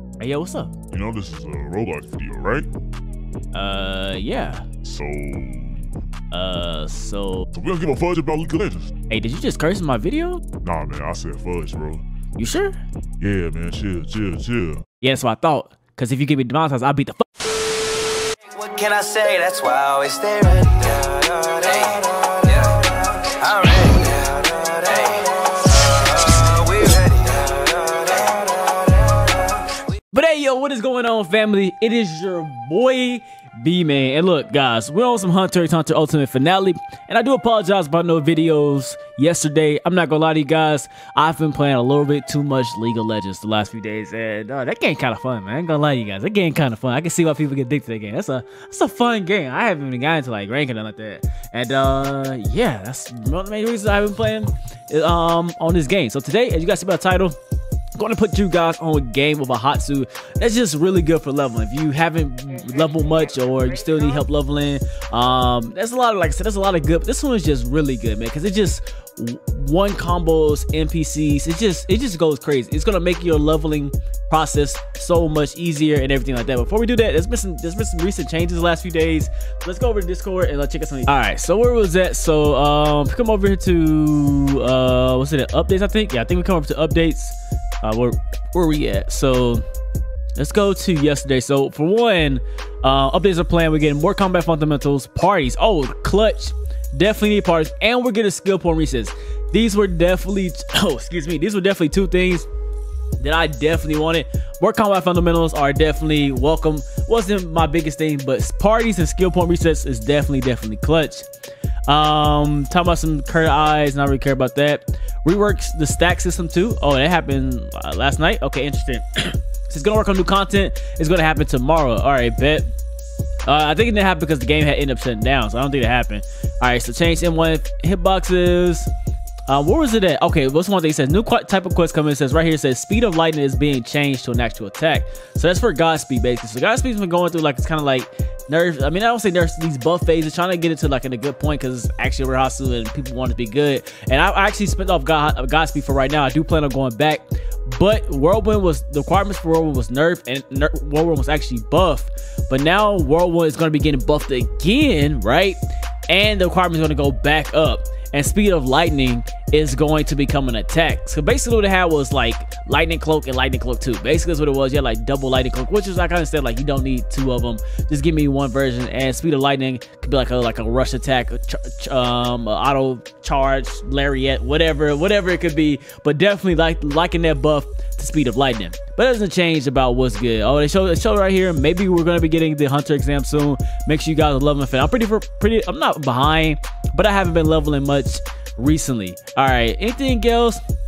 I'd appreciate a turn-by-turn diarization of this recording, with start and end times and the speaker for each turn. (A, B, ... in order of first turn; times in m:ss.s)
0:00.2-0:00.7 A
0:00.9-0:02.7 B
0:03.5-0:04.7 A
0:04.8-0:05.9 B
0:06.3-0:07.5 A
0:07.5-0:08.9 B
0:09.1-0:10.4 A
0:10.6-0:12.0 B
0:12.4-0:12.8 A
0:13.2-0:14.8 B
0:15.0-0:17.3 A
0:18.4-0:29.8 C
0:29.9-0:57.4 A
0:58.0-1:29.6 A
1:30.4-1:42.5 A
1:43.2-1:51.3 A
1:51.9-2:02.7 A
2:03.4-2:08.9 A
2:09.5-3:10.6 A